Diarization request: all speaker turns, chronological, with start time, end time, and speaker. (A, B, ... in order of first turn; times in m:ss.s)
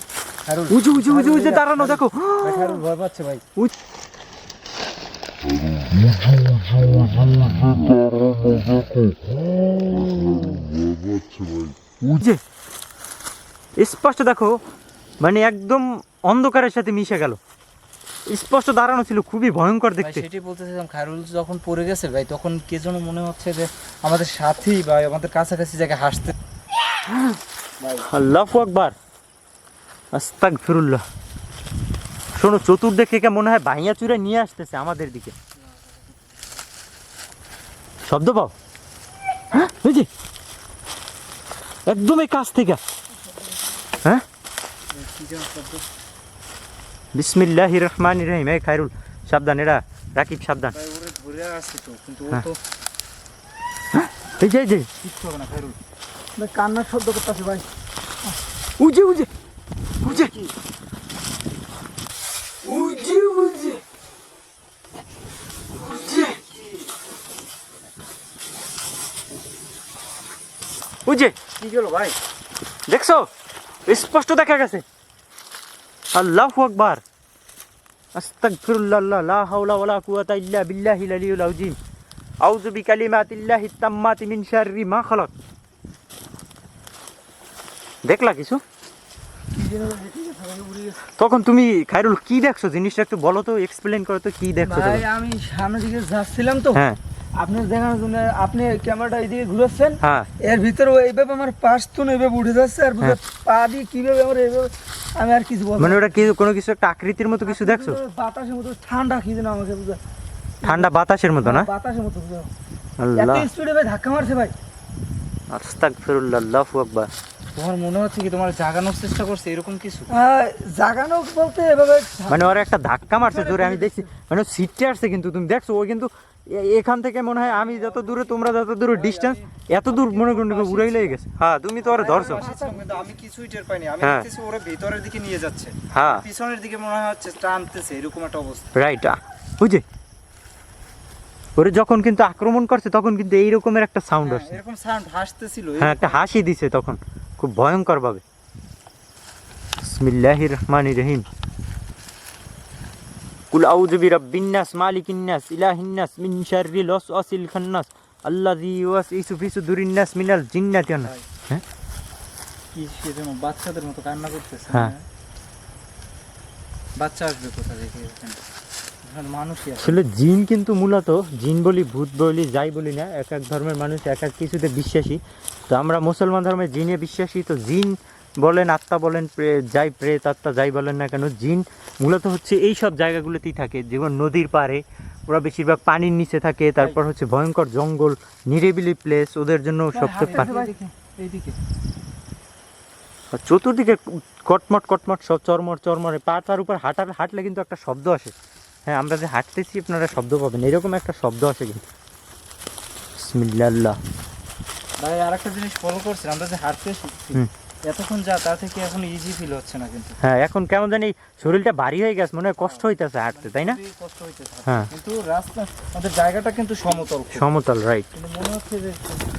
0:00.4-0:03.4 A
0:00.7-0:02.8 B
0:12.1-0:12.4 B
0:13.8-0:14.6 B
0:15.2-0:17.4 B
0:18.3-0:20.2 B
0:20.0-0:26.3 A
0:27.0-0:27.4 B
0:28.0-0:28.9 B
0:30.1-0:31.0 B
0:32.3-0:35.3 B
0:38.0-0:38.5 B
0:39.5-0:40.1 B
0:41.8-0:42.8 B
0:44.9-0:45.8 A
0:47.1-0:50.7 B
0:50.7-0:52.6 A
0:53.9-0:54.9 B
0:55.0-0:55.8 A
0:56.4-0:57.7 C
0:58.8-0:59.3 B
1:00.0-1:00.3 B
1:00.0-1:00.5 A
1:02.7-1:03.8 B
1:05.8-1:06.4 B
1:11.0-1:11.4 B
1:11.6-1:12.1 A
1:12.9-1:13.3 B
1:13.8-1:14.8 B
1:16.1-1:17.0 B
1:18.1-1:21.8 B
1:22.4-1:25.3 B
1:28.0-1:28.6 B
1:29.5-1:31.0 C
1:31.1-1:35.0 B
1:34.6-1:36.8 C
1:36.7-1:37.0 B
1:37.4-1:46.2 C
1:40.0-1:40.3 B
1:45.8-1:48.0 B
1:47.4-1:50.0 C
1:50.6-1:50.9 C
1:50.6-1:51.7 B
1:51.4-1:52.5 C
1:53.0-1:53.5 B
1:53.1-1:54.5 C
1:55.5-1:57.1 B
1:57.5-2:00.1 A
2:00.1-2:02.5 C
2:02.3-2:12.4 B
2:03.3-2:04.0 C
2:07.5-2:08.3 A
2:08.9-2:11.2 A
2:11.8-2:18.7 A
2:12.2-2:13.0 C
2:14.0-2:14.3 B
2:15.9-2:16.2 B
2:18.7-2:19.8 B
2:21.6-2:24.6 B
2:24.2-2:26.2 A
2:25.8-2:28.2 B
2:29.8-2:31.2 B
2:33.5-2:41.6 B
2:42.7-2:45.0 A
2:47.0-2:48.4 A
2:49.0-2:49.9 A
2:49.8-3:10.5 B
3:09.9-3:11.6 A
3:10.2-3:10.7 C
3:13.3-3:18.3 B
3:18.8-3:21.8 B
3:23.1-3:24.0 B
3:25.0-3:30.2 A
3:30.2-3:33.8 B
3:32.6-3:37.4 A
3:37.3-3:38.1 B
3:38.1-3:39.1 A